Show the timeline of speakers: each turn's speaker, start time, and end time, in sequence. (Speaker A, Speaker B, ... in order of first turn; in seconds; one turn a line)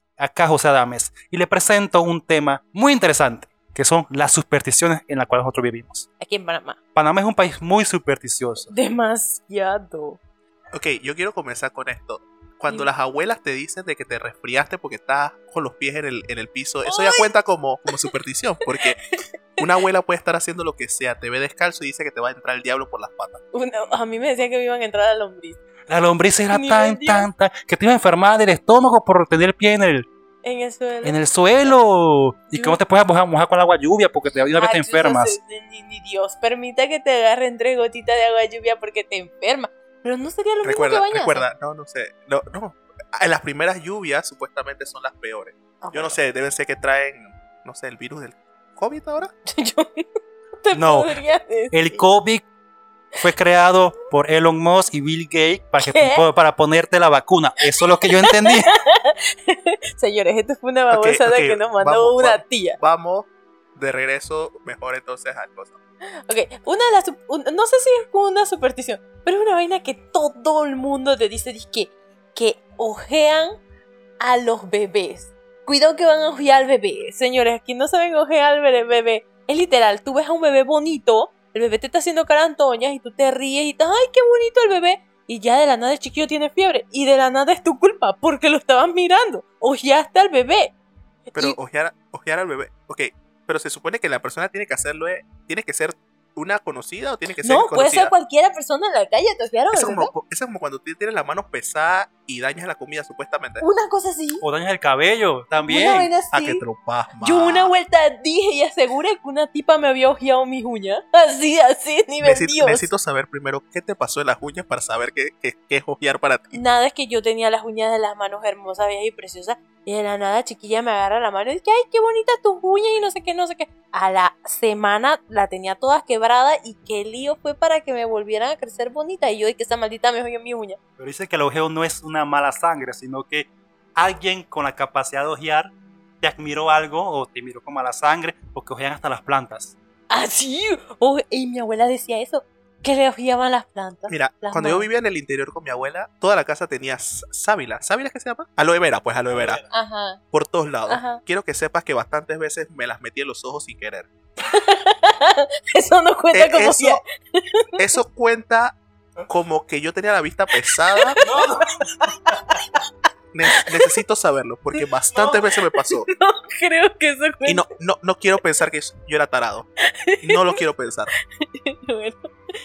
Speaker A: 0.2-6.1
Speaker B: 6.2-6.8
Speaker A: 6.9-8.7
Speaker B: 8.7-10.2
Speaker C: 10.7-19.0
Speaker B: 16.8-17.4
Speaker C: 19.6-23.4
Speaker B: 23.5-25.6
Speaker A: 25.9-30.1
Speaker B: 26.5-27.3
Speaker B: 30.4-31.7
Speaker A: 31.0-35.4
Speaker B: 32.5-32.8
Speaker B: 34.5-41.5
Speaker C: 40.6-49.3
Speaker B: 45.8-46.2
Speaker B: 49.4-50.1
Speaker B: 50.6-52.0
Speaker A: 50.7-51.2
Speaker A: 51.7-52.4
Speaker A: 53.2-58.7
Speaker B: 55.8-56.2
Speaker B: 58.1-62.8
Speaker C: 60.9-65.8
Speaker B: 66.3-73.6
Speaker B: 74.2-90.7
Speaker B: 91.3-91.6
Speaker C: 91.3-98.1
Speaker B: 97.4-100.1
Speaker C: 99.7-103.6
Speaker B: 103.6-104.4
Speaker A: 104.4-106.1
Speaker B: 105.6-106.6
Speaker C: 106.3-107.7
Speaker B: 107.2-112.9
Speaker C: 112.2-116.6
Speaker B: 116.5-130.8
Speaker A: 131.0-139.7
Speaker B: 140.1-144.9
Speaker C: 144.1-149.6
Speaker A: 149.3-149.7
Speaker B: 149.7-150.2
Speaker C: 150.3-154.1
Speaker B: 150.9-151.2
Speaker B: 154.5-157.9
Speaker C: 156.3-157.0
Speaker C: 157.8-161.2
Speaker B: 160.9-162.6
Speaker A: 161.2-162.3
Speaker C: 163.3-166.1
Speaker A: 165.1-165.4
Speaker B: 166.0-167.6
Speaker C: 167.4-169.7
Speaker B: 169.8-170.6
Speaker C: 170.2-171.1
Speaker B: 171.4-172.3